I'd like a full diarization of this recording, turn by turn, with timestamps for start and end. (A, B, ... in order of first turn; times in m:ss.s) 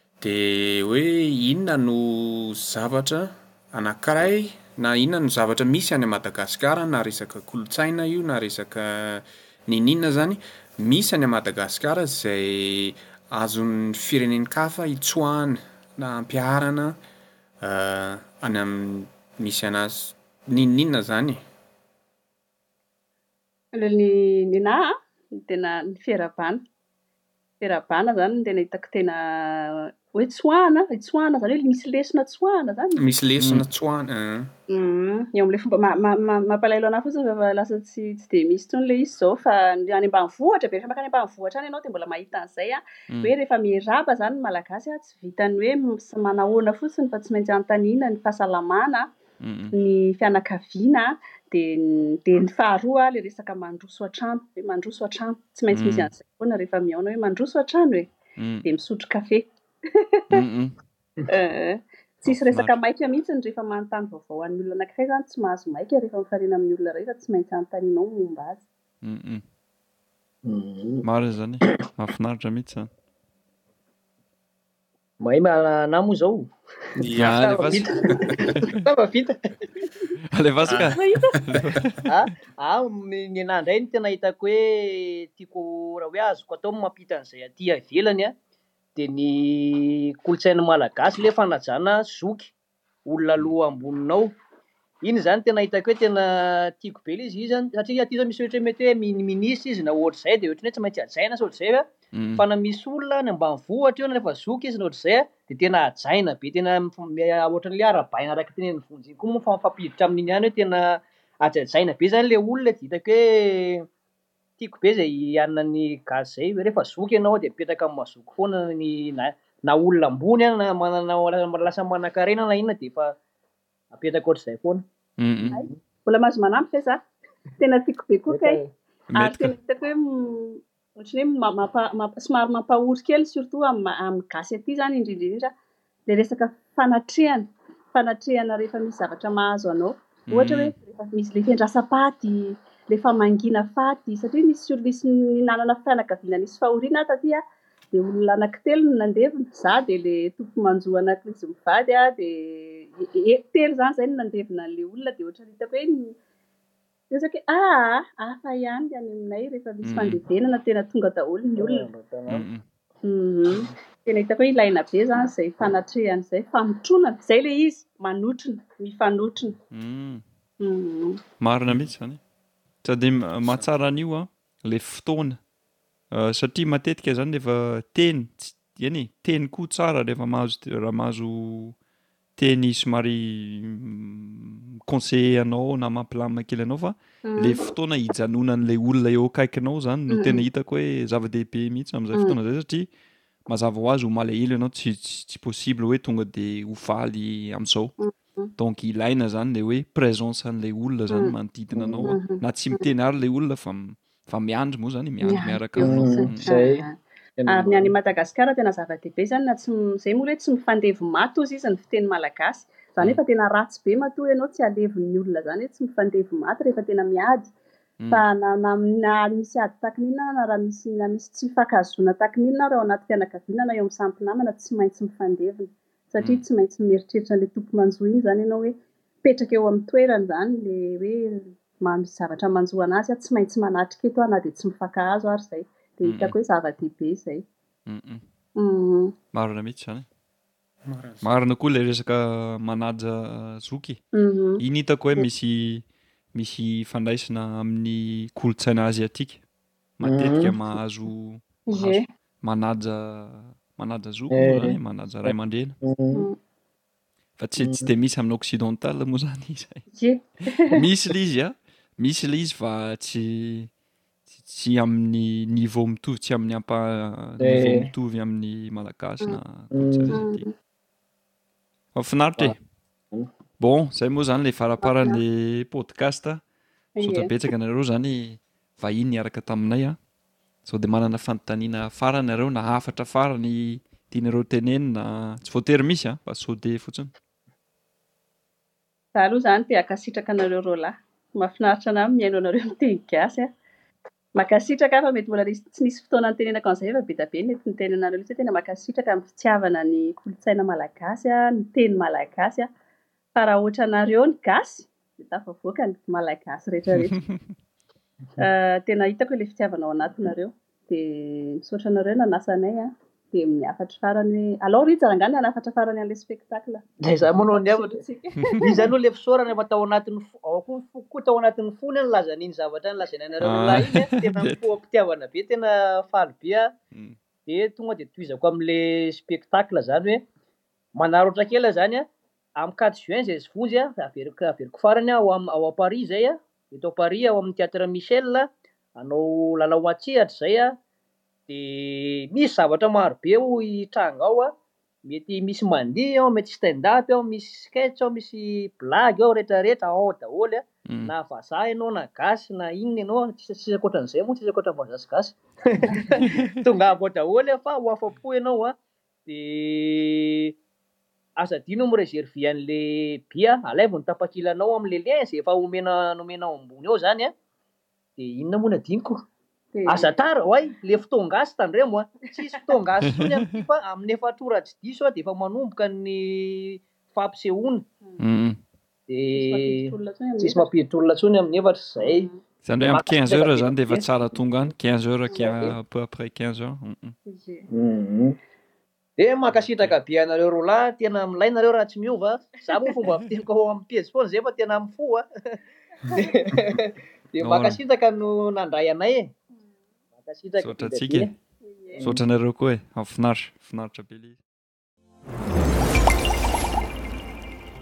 0:00.2-0:17.0 A
0:17.6-0:21.4 A
0:23.7-0:26.6 B
0:27.6-0:33.1 B
0:33.0-0:34.5 A
0:33.4-0:33.7 C
0:34.7-0:49.1 B
0:49.4-0:49.7 C
0:49.7-0:58.1 B
0:55.7-0:56.1 C
0:58.4-0:58.7 C
0:58.6-1:00.4 B
1:00.3-1:00.8 C
1:01.3-1:08.6 B
1:02.2-1:02.8 C
1:09.0-1:09.4 C
1:10.4-1:11.0 D
1:11.0-1:12.9 C
1:15.2-1:16.5 D
1:17.0-1:17.4 A
1:17.1-1:18.8 C
1:17.1-1:19.4 D
1:20.3-1:22.1 C
1:20.6-1:20.9 A
1:20.9-1:21.3 B
1:21.5-1:21.8 A
1:22.1-1:28.3 D
1:29.0-1:32.5 D
1:33.0-1:34.3 D
1:35.0-1:53.9 D
1:42.1-1:42.4 C
1:54.6-2:03.2 D
2:03.9-2:04.8 D
2:05.2-2:05.6 C
2:05.4-2:05.7 D
2:05.5-2:07.0 B
2:07.6-2:08.6 B
2:08.3-2:08.7 D
2:09.1-2:09.5 C
2:09.1-2:15.5 B
2:16.1-2:36.2 B
2:20.3-2:20.7 C
2:37.1-2:41.8 B
2:39.8-2:40.2 C
2:41.6-2:42.4 D
2:42.3-2:42.6 C
2:43.0-2:49.6 B
2:49.7-2:50.2 C
2:50.6-2:51.2 B
2:51.4-2:52.2 C
2:52.8-2:55.4 C
2:56.1-3:01.7 C
3:02.4-3:12.9 C
3:07.2-3:07.7 B
3:10.1-3:10.4 B
3:13.4-3:17.9 C
3:18.0-3:18.5 B
3:18.6-3:26.5 C
3:21.1-3:21.3 B
3:21.7-3:22.1 D
3:22.0-3:22.9 B
3:25.2-3:37.5 B
3:25.8-3:26.8 D
3:27.4-3:27.9 D
3:38.1-3:57.4 B
3:46.2-3:46.4 C
3:56.0-3:56.4 C
3:57.9-3:58.2 C
3:58.6-3:59.1 B
3:59.3-4:00.0 C
4:00.8-4:01.3 A
4:01.2-4:04.0 C
4:04.1-4:04.6 B
4:04.6-4:09.4 C
4:10.0-4:15.8 C
4:10.0-4:10.6 D
4:11.7-4:12.0 B
4:14.3-4:16.2 D
4:17.4-4:19.8 C
4:17.6-4:17.9 D
4:19.9-4:20.8 B
4:20.6-4:23.7 C
4:24.3-4:30.4 C
4:27.4-4:27.9 D
4:29.7-4:30.1 D
4:30.1-4:30.5 B
4:31.9-4:32.6 C
4:33.6-4:36.4 C
4:34.8-4:35.2 B
4:37.0-4:37.3 B
4:37.0-4:40.0 C
4:40.6-4:47.1 C
4:49.1-4:53.5 B
4:54.3-5:02.7 B
5:03.3-5:07.2 B
5:06.9-5:07.5 C
5:08.4-5:16.8 B
5:17.0-5:18.0 D
5:17.5-5:18.9 B
5:18.6-5:26.7 D
5:23.4-5:24.7 C
5:27.4-5:30.2 D
5:31.0-5:40.8 D
5:41.5-5:44.5 D
5:45.0-6:00.5 D
5:50.9-5:51.1 C
5:56.2-5:56.6 C
6:01.4-6:07.3 D
6:08.2-6:09.2 D
6:09.7-6:10.2 B
6:09.9-6:17.8 D
6:18.2-6:18.6 C
6:19.1-6:22.3 D
6:19.4-6:20.7 B
6:22.0-6:22.4 B
6:22.6-6:27.1 C
6:22.8-6:24.0 D
6:25.3-6:25.7 B
6:27.3-6:27.7 B
6:27.7-6:28.4 D
6:29.2-6:35.6 D
6:29.5-6:30.0 C
6:36.1-6:39.3 D
6:37.4-6:37.8 C
6:40.2-6:41.3 D
6:40.6-6:41.3 C
6:41.6-6:42.0 B
6:42.0-6:42.2 D
6:42.0-6:44.4 C